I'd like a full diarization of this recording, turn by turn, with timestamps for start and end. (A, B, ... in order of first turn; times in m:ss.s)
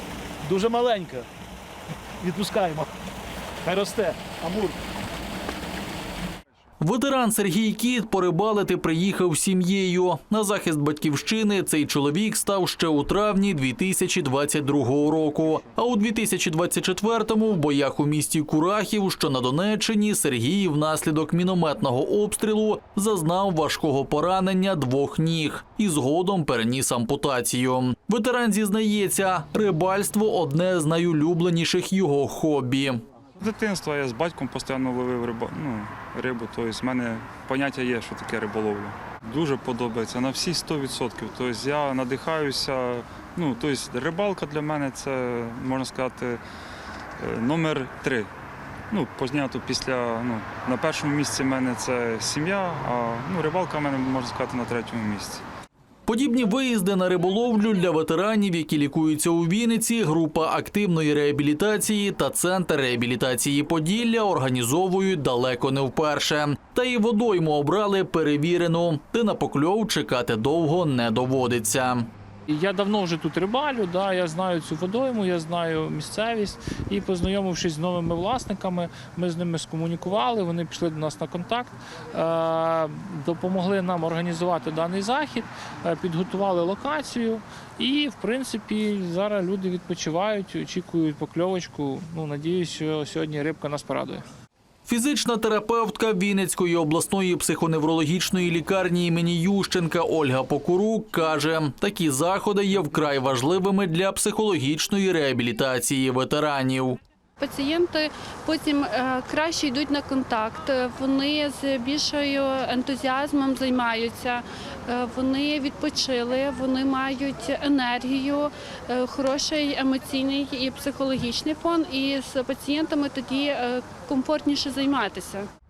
0:00.4-0:01.3 A
0:02.2-0:02.9 A
0:03.6-0:04.8 A
0:06.8-0:33.0 B
0:33.4-0:46.4 C
0:47.2-0:48.3 C
0:48.9-0:55.4 C
0:56.1-1:12.1 B
1:12.5-1:34.2 D
1:34.9-1:47.0 B
1:47.4-2:05.5 E